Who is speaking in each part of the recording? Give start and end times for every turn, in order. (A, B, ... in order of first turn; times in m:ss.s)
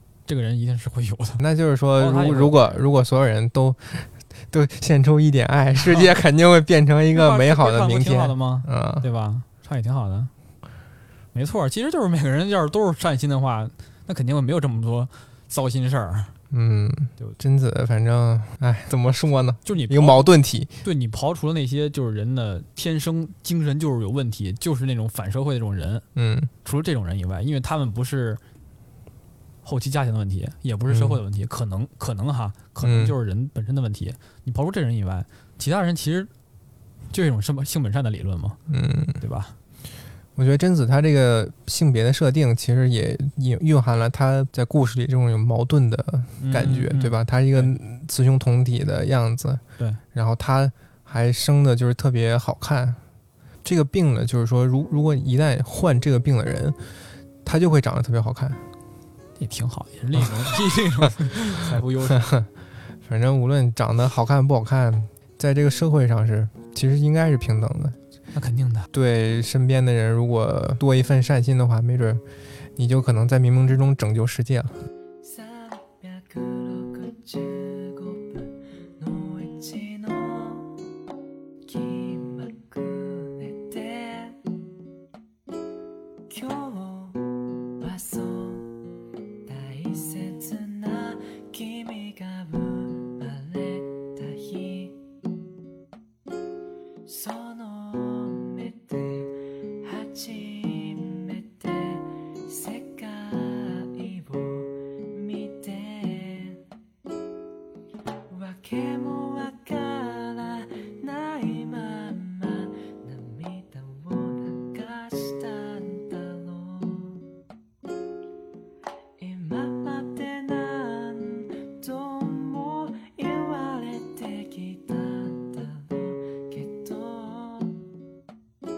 0:00.3-0:01.4 A
0:01.4-0:09.0 B
0:02.0-0:02.8 A
0:05.8-0:06.1 A
0:07.1-0:10.3 A
0:11.3-0:16.3 A
0:16.5-0:20.7 B
0:19.6-0:26.0 A
0:26.2-0:26.5 B
0:26.6-0:28.4 A
0:29.6-0:36.3 A
0:30.9-0:31.2 B
0:32.8-0:33.1 B
0:37.1-0:38.6 A
0:38.7-0:39.2 B
0:39.2-0:39.6 A
0:40.4-0:49.6 B
0:46.4-0:47.8 A
0:50.1-0:53.0 B
0:53.6-0:56.8 B
0:57.4-0:58.6 B
0:59.4-1:02.3 A
1:02.1-1:02.5 B
1:03.0-1:08.0 B
1:08.3-1:08.9 A
1:08.9-1:12.2 B
1:12.8-1:14.7 B
1:15.2-1:20.8 C
1:21.6-1:24.4 C
1:26.3-1:28.8 C
1:29.4-1:35.0 C
1:37.0-1:46.6 C
1:48.3-1:57.2 C
1:59.2-2:07.8 C